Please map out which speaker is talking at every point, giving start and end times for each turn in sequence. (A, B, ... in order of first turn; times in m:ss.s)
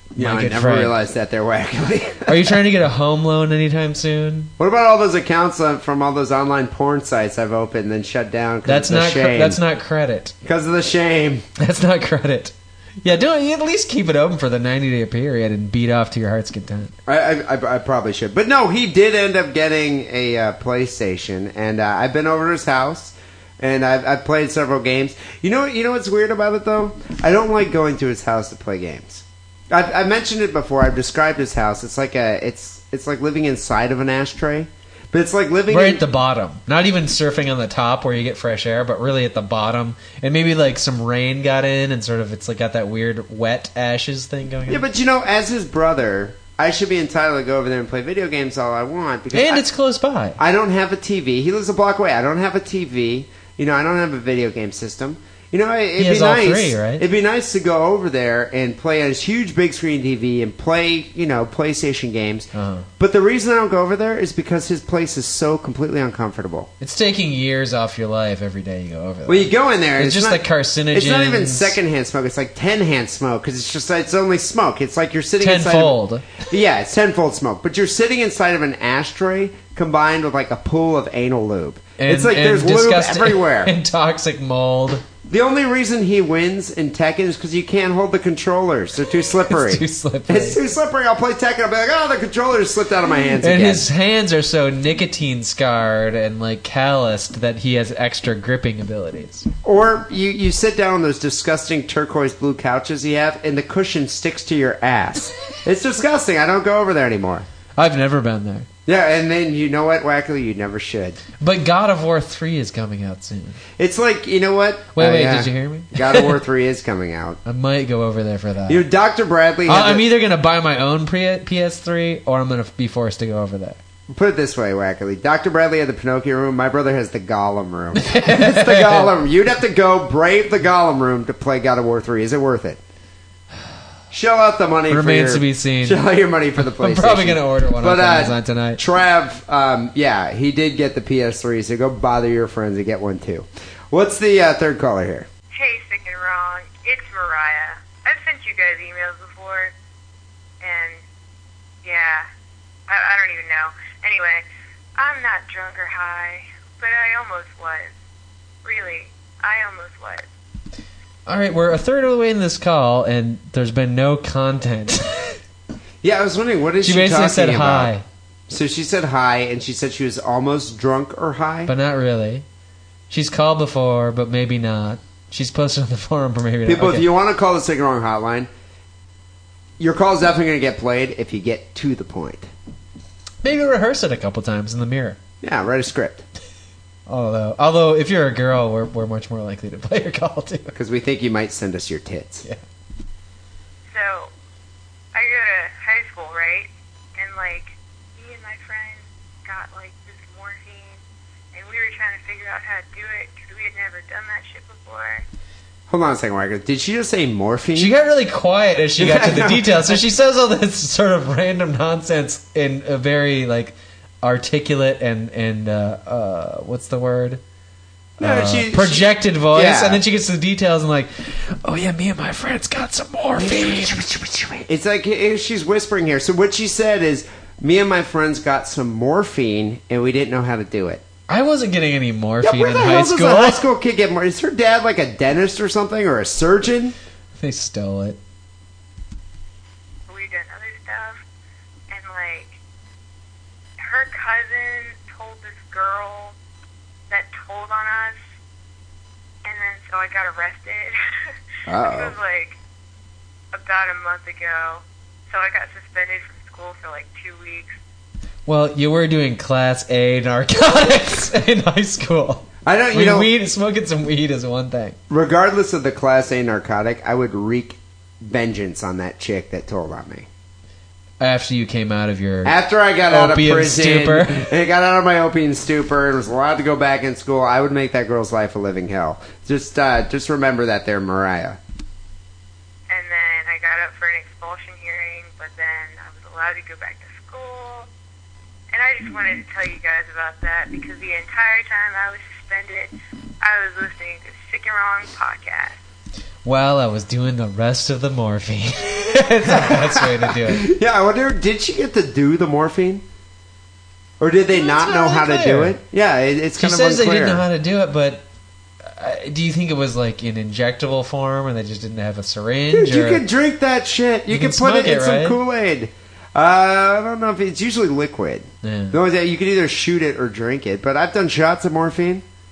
0:00.2-0:02.6 A
0:00.2-0:01.0 B
0:02.3-0:04.5 B
0:04.6-0:09.6 A
0:08.7-0:10.3 B
0:10.4-0:11.5 A
0:11.6-0:16.9 B
0:17.1-0:36.0 A
0:35.7-0:44.8 B
0:44.7-0:49.6 A
0:49.3-0:50.4 B
0:50.4-1:06.7 A
0:56.0-0:57.0 B
1:02.5-1:02.9 B
1:06.8-1:11.8 B
1:09.3-1:23.7 A
1:15.4-1:16.4 B
1:22.0-1:25.0 B
1:25.3-1:33.9 A
1:29.5-1:30.6 B
1:33.4-1:39.5 B
1:39.6-1:47.5 A
1:47.8-1:48.7 B
1:48.9-1:51.2 A
1:51.4-1:53.6 B
1:53.8-1:57.4 A
1:55.0-1:56.4 B
1:57.4-1:58.8 B
1:58.7-2:00.1 A
1:59.7-2:03.8 B
2:04.1-2:12.8 A
2:08.0-2:09.1 B
2:14.1-2:25.3 A
2:14.9-2:16.0 B
2:16.6-2:18.8 B
2:25.5-2:29.7 C
2:30.6-2:31.0 C
2:31.8-2:32.3 C
2:32.9-2:34.5 C
2:35.0-2:38.0 C
2:38.6-2:40.3 C
2:41.3-2:45.4 B
2:46.0-2:47.9 A
2:46.8-2:48.0 B
2:48.5-2:51.7 A
2:51.7-2:52.4 B
2:53.1-2:57.1 B
2:56.7-2:58.5 A
2:59.8-3:02.5 A
3:03.4-3:05.2 B
3:05.4-3:06.2 A
3:07.1-3:10.8 B
3:10.7-3:12.5 A
3:13.9-3:14.3 C
3:15.1-3:25.2 C
3:25.9-3:28.0 A
3:27.8-3:37.4 B
3:29.0-3:30.0 A
3:38.2-3:40.0 A
3:38.2-3:44.0 B
3:43.4-3:51.0 A
3:51.3-3:53.7 B
3:52.4-3:57.0 A
3:57.4-3:58.2 B
4:00.1-4:01.2 C
4:01.9-4:02.6 C
4:03.8-4:06.4 C
4:07.1-4:08.3 C
4:09.4-4:11.0 C
4:11.7-4:12.2 A
4:11.7-4:12.6 C
4:13.5-4:17.8 C
4:18.5-4:25.0 B
4:22.6-4:23.3 A
4:25.1-4:30.3 A
4:31.2-4:32.6 B
4:32.4-4:41.6 A
4:33.1-4:34.5 B
4:42.9-4:47.9 C
4:48.7-4:55.8 C
4:56.4-5:00.7 B
4:59.5-5:03.0 A
5:04.2-5:07.5 A
5:04.5-5:05.8 B
5:06.6-5:08.2 B
5:08.8-5:13.2 B
5:12.7-5:22.2 A
5:14.3-5:15.4 B
5:18.6-5:19.0 B